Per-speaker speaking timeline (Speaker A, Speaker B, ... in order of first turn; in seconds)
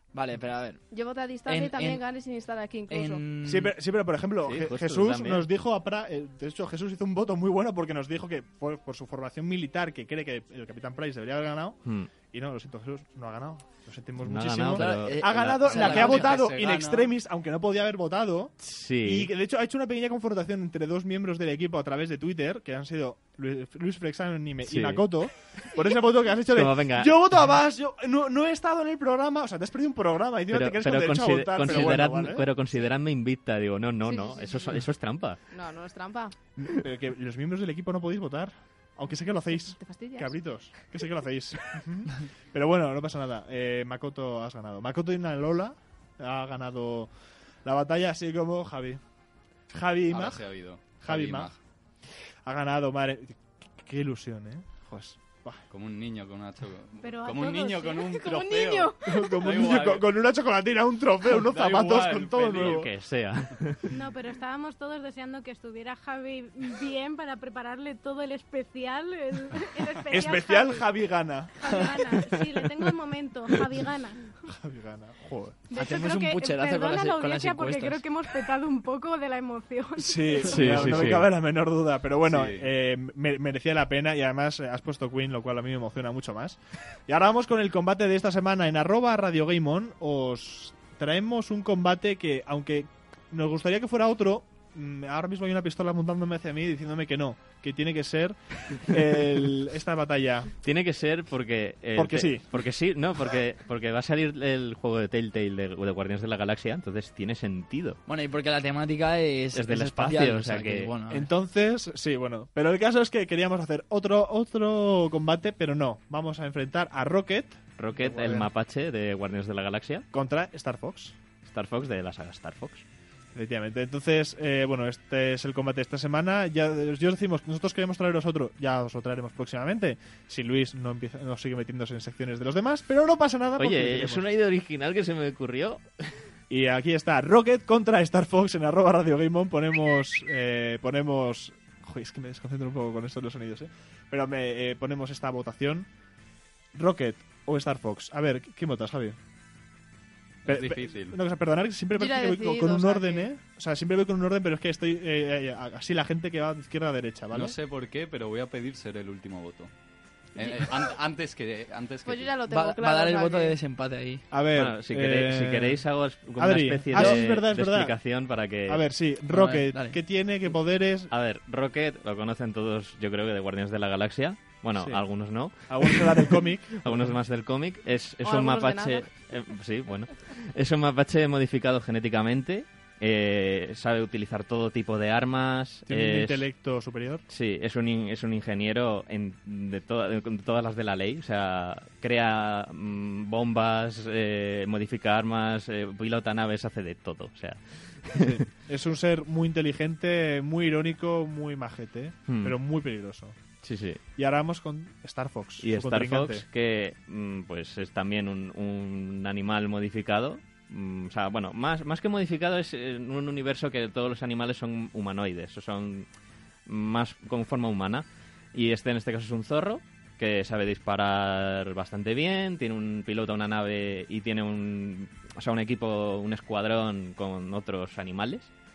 Speaker A: 0.1-0.8, 1.4-2.0, 2.9-3.7, 75.8-78.0, 108.1-111.2, 162.5-164.2, 169.3-170.0
Speaker B: 0.9-3.2, 34.0-34.8, 35.5-36.4, 39.6-40.4, 58.0-59.3, 151.9-153.3, 162.0-163.6, 178.2-179.1
Speaker C: 3.4-32.5, 36.5-47.1, 47.6-49.0, 49.7-50.4, 51.0-51.5, 52.4-55.6, 59.0-62.9, 70.1-71.9, 74.5-75.7, 80.0-100.5, 102.0-102.5, 109.7-110.3, 111.1-118.5, 120.1-121.2, 123.3-134.2, 136.5-145.9, 146.7-149.2, 150.4-157.6, 164.3-165.8, 166.4-171.1, 174.8-175.0, 175.6-177.1, 185.9-187.2, 198.2-203.4, 204.2-206.4
Speaker D: 4.4-5.5, 11.8-12.1, 14.2-16.3, 18.6-19.3, 24.6-25.1, 26.5-27.1, 30.5-35.4, 62.6-63.8, 80.5-81.3, 100.6-108.0, 109.5-110.9, 117.8-120.0, 121.4-122.8, 133.6-136.2, 164.5-168.8, 171.1-186.5, 187.3-198.3, 202.3-202.6, 203.6-204.0, 205.6-216.1, 216.7-228.5
Speaker E: 14.8-16.3, 57.0-58.0, 63.9-71.0, 71.5-74.3, 75.7-80.8
Speaker F: 15.7-17.1, 50.1-51.6, 55.7-60.1, 61.2-62.9, 82.2-82.7, 150.4-151.2, 157.3-159.7, 160.3-162.4